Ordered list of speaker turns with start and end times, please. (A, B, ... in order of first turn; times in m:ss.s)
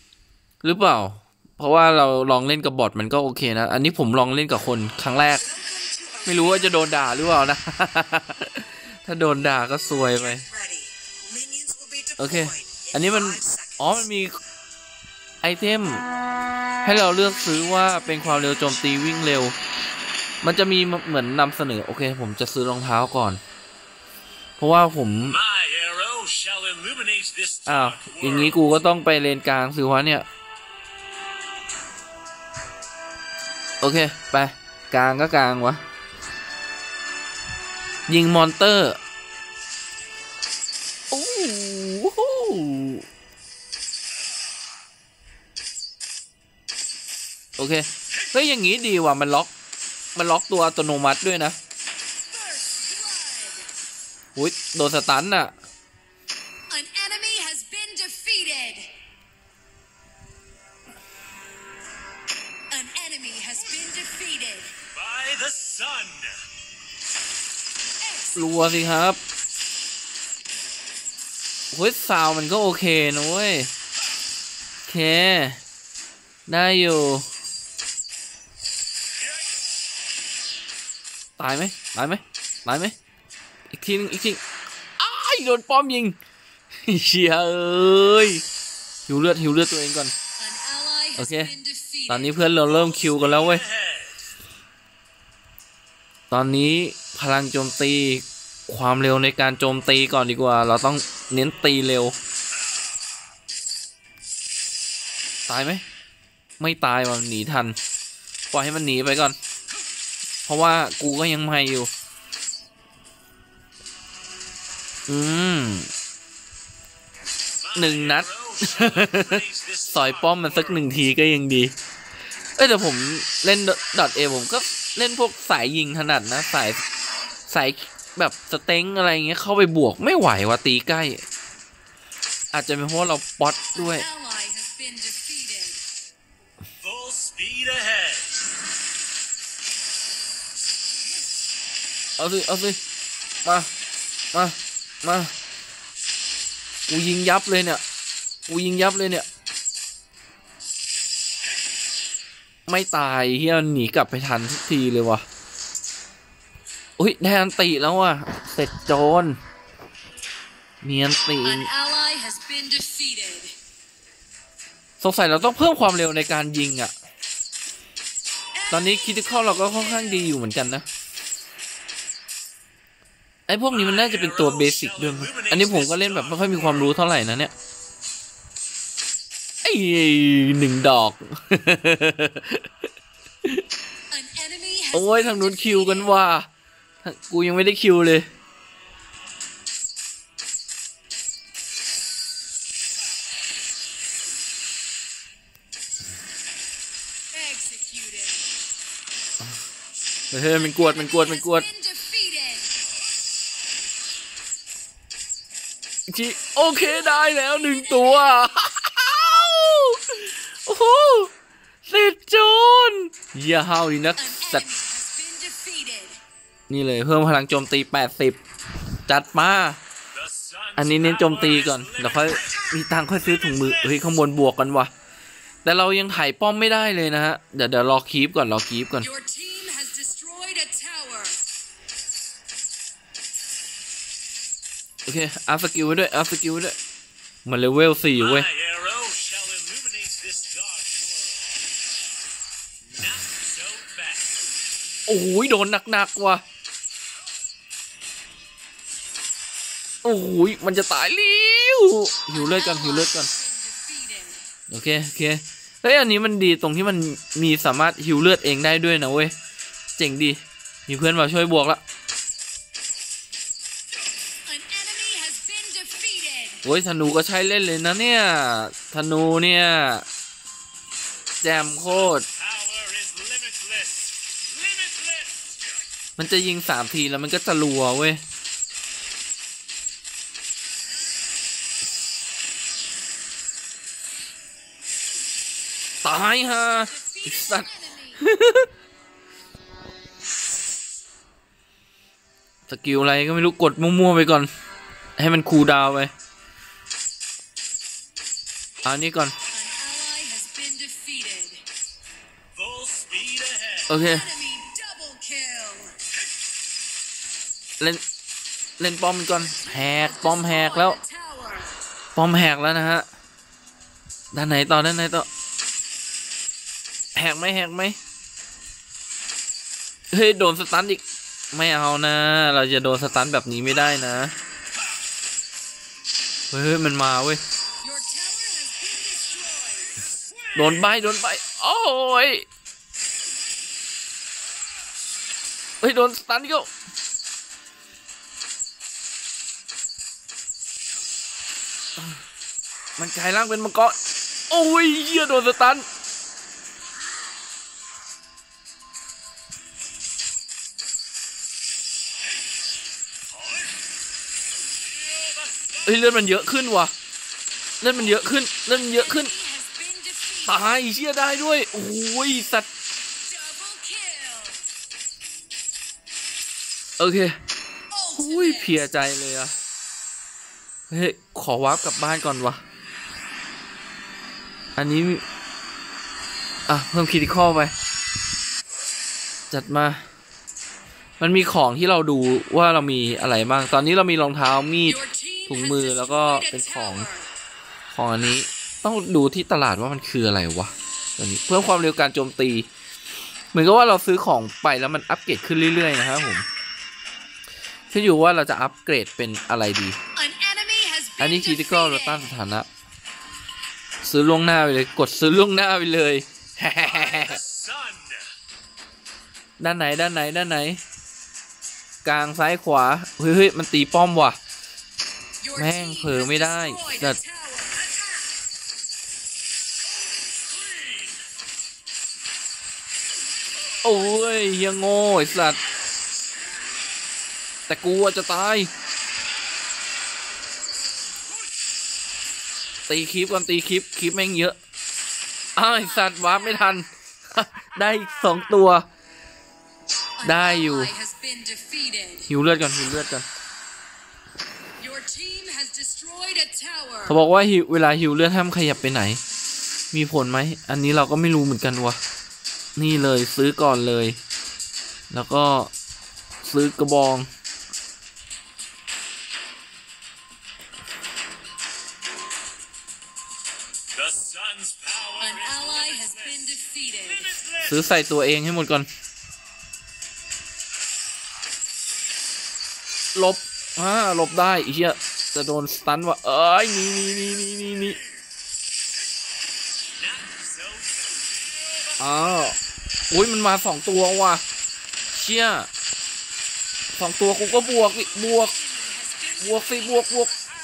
0:00.6-0:05.6 A
0:05.7-0:06.1 B
0:06.2-0:10.5 A
0:11.4-0:12.1 B
0:12.2-0:14.3 A
0:15.4-0:16.0 A
0:16.8-0:19.6 A
0:20.4-0:23.4 A
0:24.6-0:25.4 A
0:25.3-0:28.6 C
0:27.7-0:30.3 A
0:33.8-0:35.8 A
0:38.1-0:39.0 A
0:41.1-0:43.0 A
0:47.6-0:49.5 A
0:50.2-0:51.6 A
0:52.3-0:53.7 B
0:54.4-0:55.5 A
0:56.7-0:58.9 B
1:02.7-1:04.8 B
1:04.9-1:06.4 C
1:08.0-1:08.8 B
1:08.4-1:09.2 A
1:11.7-1:13.7 A
1:14.9-1:15.6 A
1:16.5-1:17.3 A
1:21.4-1:23.0 A
1:23.7-1:24.4 A
1:25.0-1:26.2 A
1:26.8-1:28.4 A
1:29.1-1:30.1 A
1:30.4-1:32.5 B
1:31.2-1:31.5 A
1:32.1-1:33.7 A
1:32.9-1:34.1 C
1:36.3-1:42.2 A
1:45.5-1:45.8 A
1:46.6-1:47.8 A
1:48.5-1:49.4 A
1:50.5-1:51.9 A
1:55.1-1:55.9 A
1:57.6-2:00.9 C
1:57.8-2:01.7 A
2:02.6-2:06.8 A
2:07.5-2:11.2 A
2:12.5-2:14.1 A
2:13.8-2:15.8 B
2:16.8-2:18.3 C
2:22.2-2:22.8 A
2:23.4-2:23.7 A
2:24.3-2:25.3 A
2:26.9-2:27.8 A
2:28.5-2:29.3 A
2:32.7-2:35.3 A
2:37.0-2:39.4 A
2:40.8-2:41.7 A
2:41.4-2:43.6 B
2:45.0-2:46.9 A
2:48.6-2:50.4 B
2:48.7-2:50.9 A
2:53.5-2:57.5 A
2:53.7-2:56.9 C
2:59.6-3:02.7 A
3:04.1-3:06.2 B
3:04.9-3:06.5 A
3:07.0-3:08.3 A
3:17.3-3:18.4 B
3:20.3-3:21.7 A
3:20.5-3:22.8 B
3:26.1-3:31.3 A
3:26.8-3:28.6 B
3:31.9-3:34.7 A
3:34.2-3:36.2 B
3:36.7-3:38.4 A
3:39.1-3:39.8 A
3:40.1-3:42.7 C
3:40.8-3:44.9 A
3:43.3-3:43.8 C
3:45.6-3:49.1 A
3:49.0-3:51.4 B
3:55.1-3:56.8 A
3:57.4-3:58.5 A
3:58.2-4:01.5 C
4:02.9-4:04.3 C
4:05.1-4:06.4 A
4:10.0-4:13.3 A
4:12.3-4:14.5 B
4:14.7-4:19.3 A
4:20.0-4:21.8 A
4:24.5-4:26.6 B
4:26.6-4:30.1 A
4:31.4-4:32.3 A
4:32.3-4:35.6 C
4:36.2-4:38.2 A
4:46.0-4:48.7 A
4:46.5-4:48.2 B
4:52.7-4:54.5 A
4:55.2-4:56.1 A
4:58.8-4:59.4 A
4:59.5-5:01.6 B
5:02.6-5:03.9 C
5:03.9-5:04.3 A
5:03.9-5:06.0 B
5:08.8-5:11.0 A
5:09.3-5:11.8 B
5:12.2-5:13.1 A
5:14.3-5:15.3 A
5:17.2-5:18.0 A
5:20.1-5:24.4 A
5:26.5-5:27.4 A
5:27.8-5:30.1 B
5:30.6-5:32.5 A
5:35.8-5:36.7 A
5:43.0-5:44.0 A
5:44.5-5:45.9 A
5:55.0-5:55.7 C
5:55.8-5:56.9 A
5:57.8-5:59.3 A
5:58.7-6:00.7 B
6:00.5-6:02.7 A
6:03.2-6:04.7 B
6:07.0-6:07.4 A
6:07.9-6:08.8 B
6:08.2-6:09.5 A
6:10.9-6:12.6 A
6:14.8-6:15.2 A
6:16.7-6:17.7 A
6:19.5-6:20.1 A
6:21.2-6:27.1 A
6:24.8-6:27.3 B
6:27.9-6:32.7 A
6:33.5-6:36.5 A
6:37.9-6:40.0 A
6:40.2-6:42.3 B
6:41.2-6:42.7 A
6:44.0-6:47.4 A
6:46.8-6:48.3 C
6:49.6-6:50.8 A
6:52.0-6:54.4 A
6:55.4-6:58.0 B
6:55.5-6:57.2 A
7:00.1-7:01.2 C
7:03.8-7:05.6 A
7:07.7-7:08.7 A
7:12.9-7:14.6 A
7:15.6-7:18.9 A
7:15.8-7:16.8 B
7:20.2-7:22.3 B
7:20.2-7:20.9 A
7:22.3-7:23.3 A
7:24.8-7:27.2 B
7:27.1-7:29.2 A
7:29.9-7:32.0 A
7:32.8-7:34.2 A
7:35.1-7:35.7 A
7:36.4-7:37.3 A
7:43.9-7:46.1 C
7:45.2-7:47.4 B
7:47.3-7:47.6 C
7:47.6-7:48.9 A
7:53.2-7:58.0 A
8:00.0-8:01.8 C
8:02.0-8:02.6 A
8:03.1-8:04.4 A
8:05.1-8:05.7 A
8:07.0-8:08.5 A
8:07.6-8:10.2 B
8:09.4-8:10.3 A